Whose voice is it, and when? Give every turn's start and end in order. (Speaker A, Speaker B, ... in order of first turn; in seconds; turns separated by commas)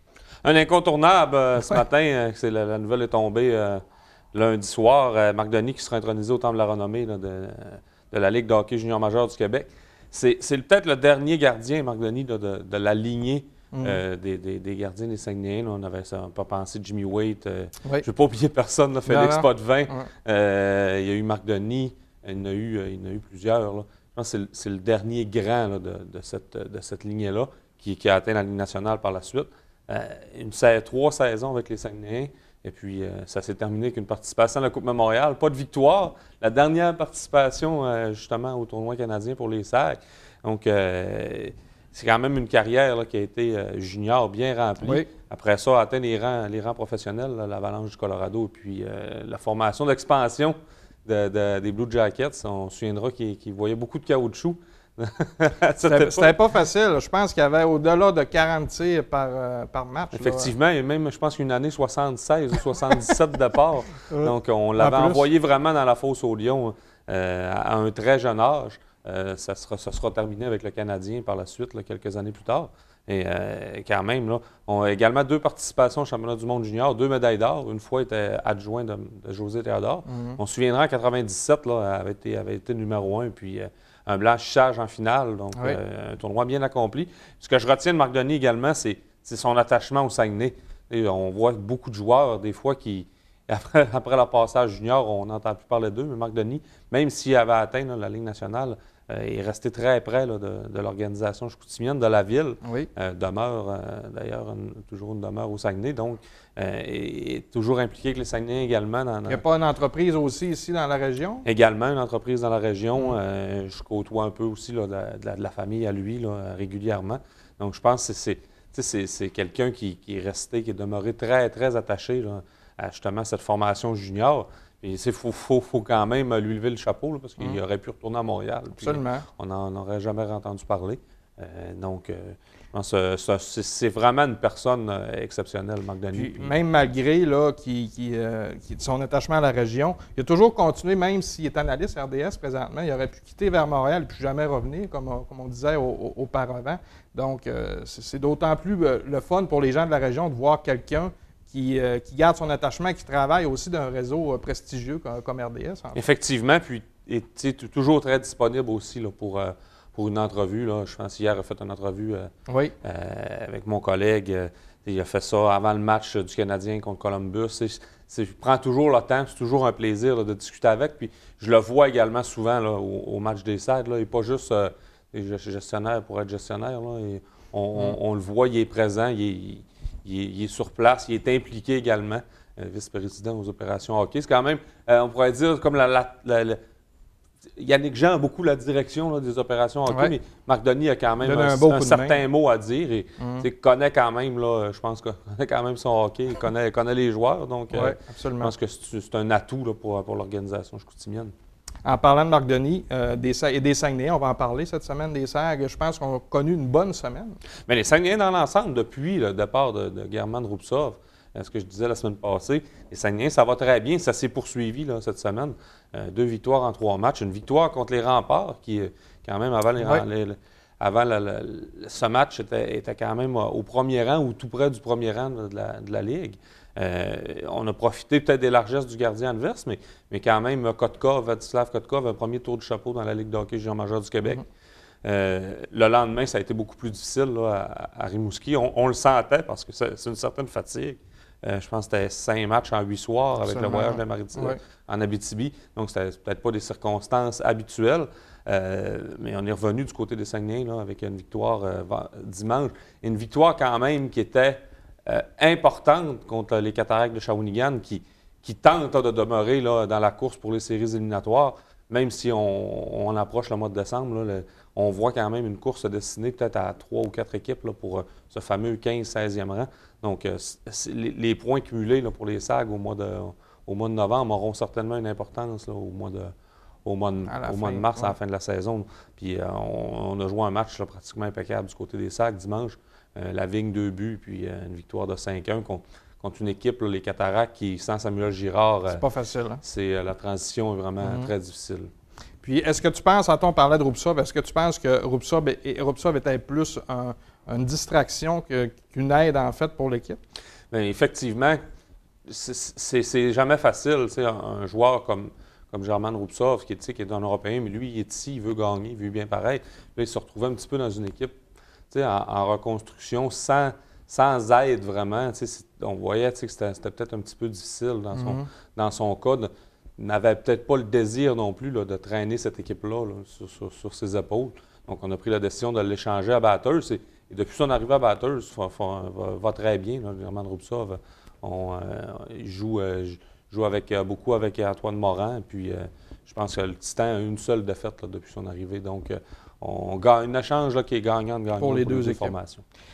Speaker A: 0.4-3.8, Speaker A: 4.3-56.3, Speaker B: 13.7-14.0, Speaker B: 19.1-20.1, Speaker B: 44.8-45.1, Speaker B: 55.8-60.5, Speaker A: 60.1-109.4, Speaker B: 64.1-65.2, Speaker B: 80.1-80.4, Speaker B: 102.6-102.9, Speaker B: 109.3-111.5, Speaker A: 111.5-136.6, Speaker B: 128.8-129.2, Speaker B: 136.1-156.0, Speaker A: 155.9-162.3, Speaker B: 162.5-162.7, Speaker A: 162.8-186.6, Speaker A: 187.6-201.3, Speaker B: 189.9-190.1, Speaker B: 191.2-192.2, Speaker B: 193.2-193.5, Speaker B: 197.7-198.5, Speaker B: 201.8-207.4, Speaker A: 207.7-234.4, Speaker B: 219.8-220.1, Speaker A: 235.0-276.3, Speaker B: 243.5-244.6, Speaker A: 276.9-289.0, Speaker B: 277.3-278.1, Speaker B: 288.9-289.6, Speaker A: 289.6-291.9, Speaker B: 291.0-291.3, Speaker B: 292.4-300.2, Speaker A: 300.7-301.6, Speaker A: 302.3-311.4, Speaker A: 311.9-342.6, Speaker B: 318.1-318.5, Speaker B: 341.6-342.4